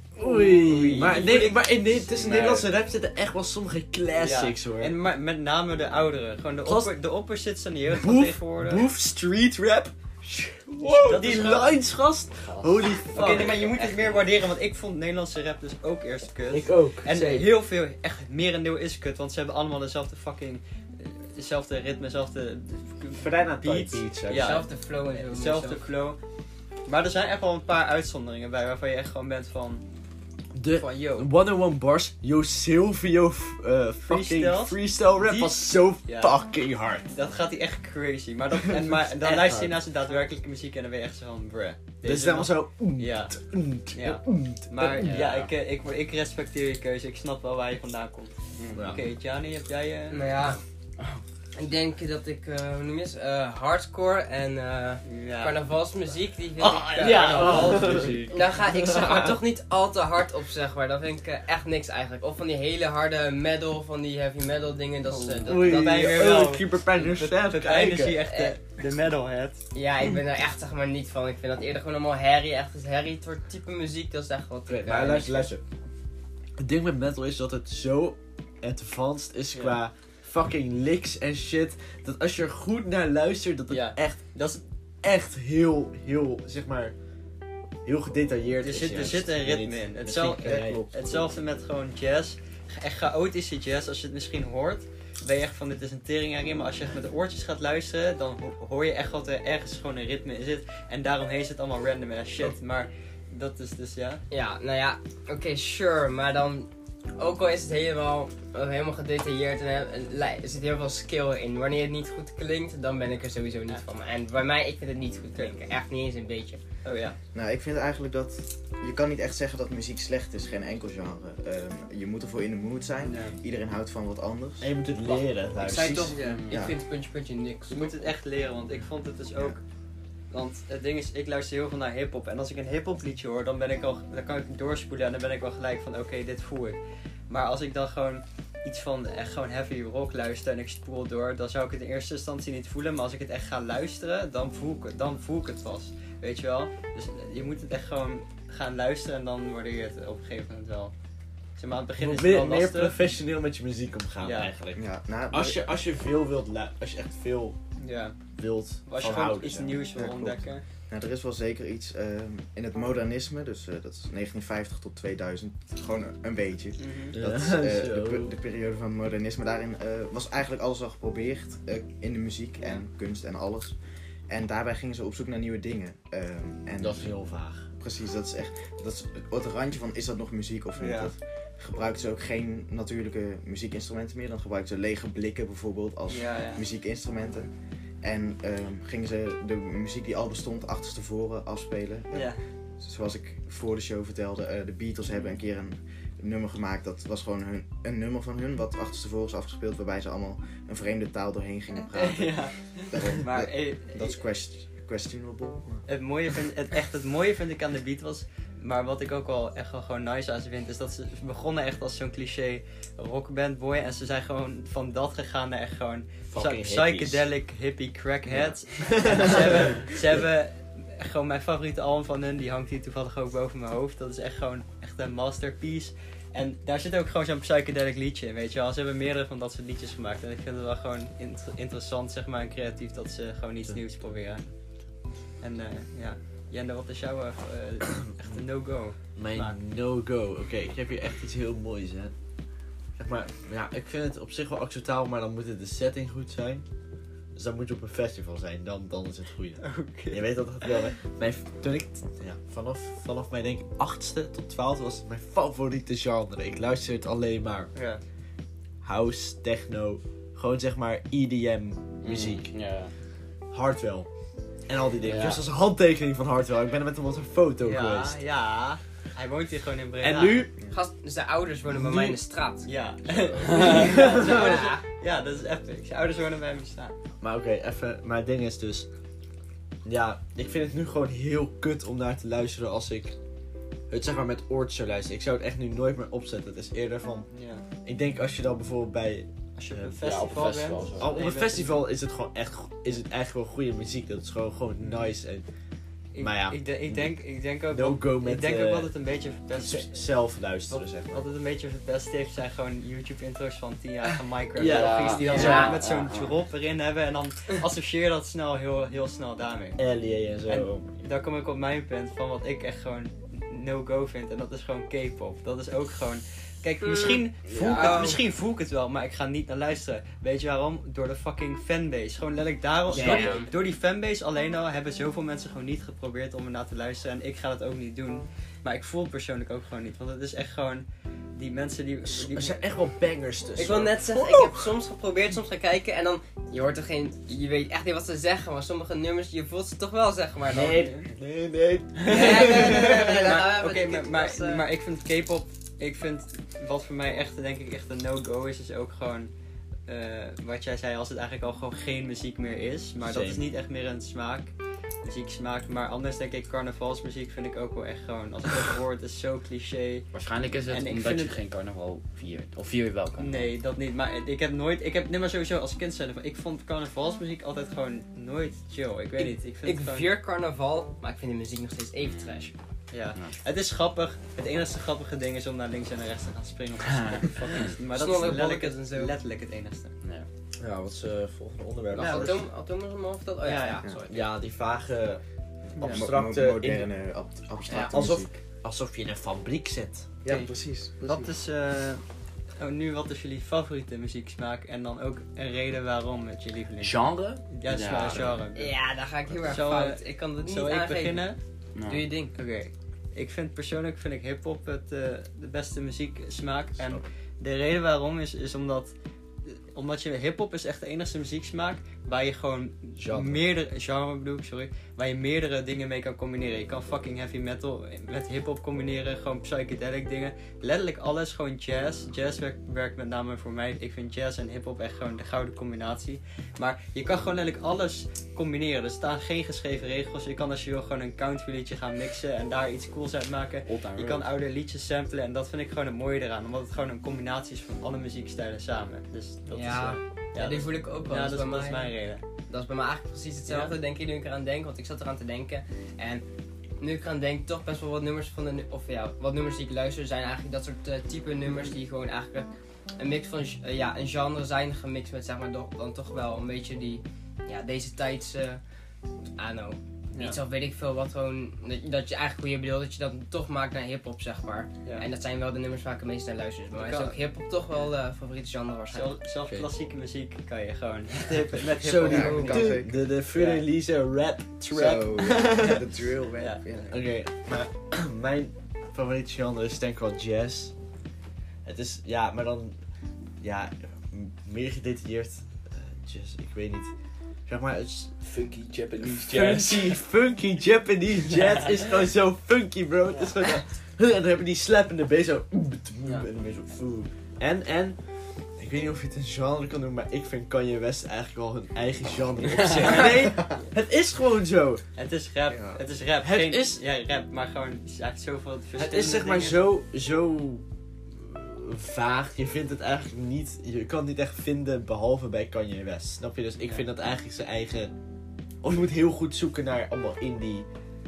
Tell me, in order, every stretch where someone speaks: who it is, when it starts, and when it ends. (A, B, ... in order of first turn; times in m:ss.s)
0:00.2-0:01.6 A
0:00.2-0:04.9 B
0:02.1-0:02.7 C
0:04.2-0:08.9 A
0:06.6-0:06.9 B
0:07.9-0:13.6 B
0:11.0-0:11.8 A
0:12.5-0:14.2 C
0:13.1-0:26.2 A
0:16.5-0:17.5 B
0:23.2-0:24.6 B
0:24.4-0:25.8 D
0:26.8-0:29.8 A
0:30.5-0:37.1 B
0:30.7-0:31.3 D
0:34.1-0:36.4 A
0:37.0-0:50.2 A
0:38.8-0:39.8 B
0:42.0-0:45.2 B
0:45.0-0:45.5 C
0:48.6-0:48.8 C
0:48.7-0:49.0 B
0:50.1-0:50.6 D
0:51.6-1:05.8 D
0:55.0-0:55.6 A
0:56.6-0:58.2 B
0:57.0-0:58.6 C
0:58.7-0:59.4 B
1:05.1-1:09.6 A
1:05.5-1:08.2 B
1:08.3-1:08.6 D
1:09.7-1:15.5 D
1:14.7-1:15.6 B
1:16.6-1:24.5 B
1:23.7-1:24.6 A
1:25.0-1:27.0 B
1:27.8-1:30.8 B
1:28.6-1:44.2 A
1:30.4-1:31.2 E
1:44.3-1:56.6 D
1:56.8-1:57.2 A
1:57.3-2:05.2 E
2:03.0-2:03.4 A
2:04.6-2:06.2 B
2:05.6-2:07.9 D
2:06.1-2:06.4 A
2:06.2-2:06.6 C
2:06.5-2:06.8 E
2:07.7-2:09.6 A
2:10.3-2:30.9 A
2:31.6-2:33.1 A
2:32.0-2:37.6 B
2:34.2-2:34.5 A
2:34.7-2:35.6 E
2:37.8-2:38.2 A
2:38.4-2:39.8 B
2:38.8-2:40.6 A
2:39.0-2:39.4 E
2:39.9-2:53.8 E
2:46.8-2:47.1 A
2:47.2-2:48.4 B
2:54.3-2:57.2 E
2:56.8-2:57.7 B
2:57.7-3:07.5 E
3:00.8-3:01.1 A
3:06.1-3:06.6 A
3:08.0-3:25.8 E
3:12.1-3:12.4 A
3:21.9-3:24.2 A
3:25.8-3:54.9 A
3:36.3-3:37.2 B
3:38.8-3:39.8 B
3:55.4-3:59.6 A
3:59.0-4:02.2 B
4:03.0-4:06.6 B
4:07.3-4:17.7 B
4:09.6-4:10.9 A
4:17.7-4:18.0 A
4:18.8-4:22.6 B
4:22.0-4:22.9 C
4:23.5-4:28.2 B
4:25.0-4:25.4 C
4:27.6-4:30.5 A
4:30.0-4:30.5 B
4:30.7-4:32.7 D
4:31.7-4:32.2 B
4:32.6-4:36.9 A
4:33.4-4:34.8 D
4:33.5-4:33.8 C
4:33.7-4:34.6 B
4:37.2-4:38.9 B
4:39.8-4:43.2 B
4:43.9-4:47.3 B
4:47.3-4:47.6 A
4:47.8-4:50.0 B
4:49.6-4:51.8 A
4:50.0-4:51.1 C
4:51.0-4:55.4 B
4:54.8-4:55.1 A
4:56.1-5:00.0 A
4:56.2-4:57.2 B
4:57.7-4:58.9 B
4:59.5-5:01.2 B
5:00.7-5:09.9 A
5:04.6-5:05.8 B
5:04.6-5:06.4 C
5:05.2-5:05.6 D
5:09.8-5:11.0 B
5:10.4-5:32.7 A
5:16.8-5:18.2 D
5:17.5-5:18.2 C
5:22.9-5:23.4 B
5:22.9-5:23.5 C
5:23.0-5:23.5 D
5:32.1-5:34.7 B
5:33.6-5:41.0 D
5:40.5-5:43.3 B
5:40.8-5:41.1 A
5:42.1-5:44.6 D
5:42.1-5:49.3 A
5:49.9-6:00.1 A
5:53.0-5:53.5 B
6:00.1-6:03.5 C
6:00.7-6:01.4 A
6:03.2-6:10.1 A
6:09.2-6:12.5 D
6:12.0-6:12.5 C
6:12.9-6:20.0 A
6:13.1-6:13.4 C
6:16.9-6:17.7 C
6:17.9-6:19.1 D
6:20.0-6:20.3 C
6:20.6-6:22.4 B
6:21.9-6:22.5 A
6:22.0-6:24.2 D
6:23.4-6:24.0 A
6:24.1-6:26.9 B
6:25.8-6:26.1 A
6:25.8-6:28.4 E
6:27.7-6:30.1 B
6:30.2-6:31.3 E
6:30.2-6:38.9 A
6:36.8-6:38.4 C
6:38.1-6:38.3 B
6:38.5-6:42.3 D
6:39.4-6:41.4 A
6:41.7-6:42.1 C
6:42.3-6:48.9 A
6:46.8-6:47.1 B
6:49.5-7:22.2 A
6:53.0-6:53.4 B
7:13.7-7:14.2 C
7:19.5-7:49.2 D
7:23.5-7:23.7 A
7:40.1-7:40.4 A
7:46.7-7:47.2 A
7:48.9-7:52.8 A
7:51.8-7:55.8 B
7:52.0-7:53.0 E
7:53.3-7:53.6 A
7:54.7-7:57.0 E
7:55.5-7:55.8 A
7:56.4-7:56.8 A
7:56.9-8:00.8 B
8:01.6-8:02.8 B
8:03.4-8:06.9 B
8:07.4-8:08.2 B
8:08.2-8:10.0 C
8:09.0-8:24.8 B
8:13.1-8:13.4 A
8:23.2-8:23.4 E
8:25.0-8:29.6 A
8:25.5-8:25.8 E
8:26.2-8:26.8 B
8:28.8-8:37.9 B
8:36.6-8:36.8 A
8:38.6-8:40.6 B